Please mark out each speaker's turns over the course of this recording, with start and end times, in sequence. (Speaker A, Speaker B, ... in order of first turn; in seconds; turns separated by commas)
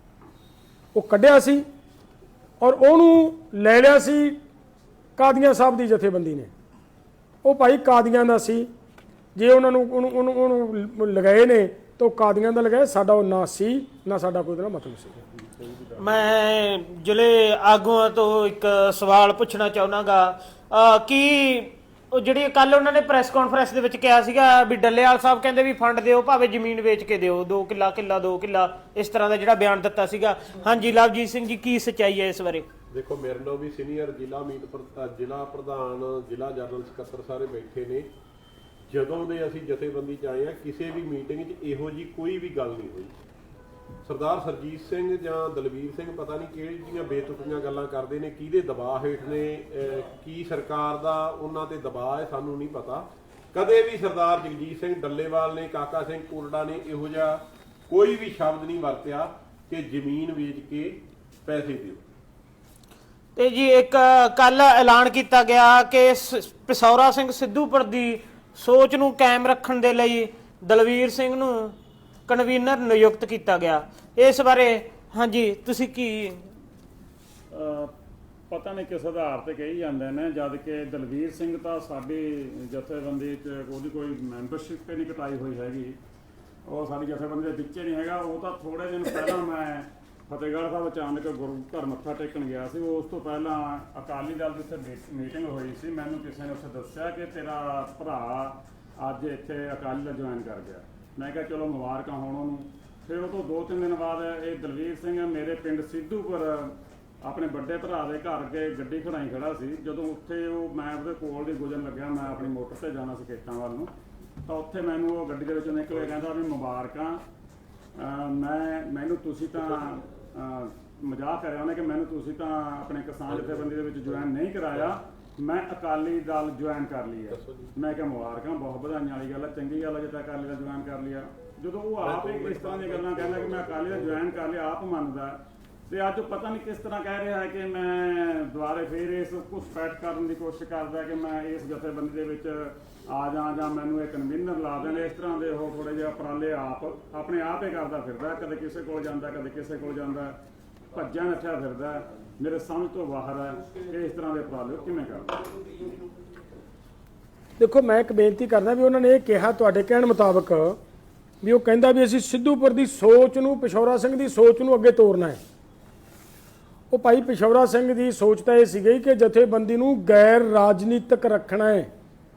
Speaker A: 0.9-1.6, Speaker A: 2.6-4.4, Speaker A: 5.2-6.5, Speaker A: 7.4-8.7, Speaker A: 9.4-15.1, Speaker B: 16.0-32.7, Speaker C: 32.9-38.1, Speaker C: 38.9-43.2, Speaker C: 44.0-62.0, Speaker B: 63.4-71.8, Speaker B: 72.3-76.5, Speaker D: 77.5-77.9, Speaker D: 78.5-86.0, Speaker D: 86.7-113.9, Speaker D: 114.5-117.2, Speaker D: 118.0-150.4, Speaker C: 127.3-127.7, Speaker C: 132.0-134.3, Speaker D: 150.9-155.4, Speaker A: 157.6-160.8, Speaker A: 161.4-165.4, Speaker A: 166.9-171.9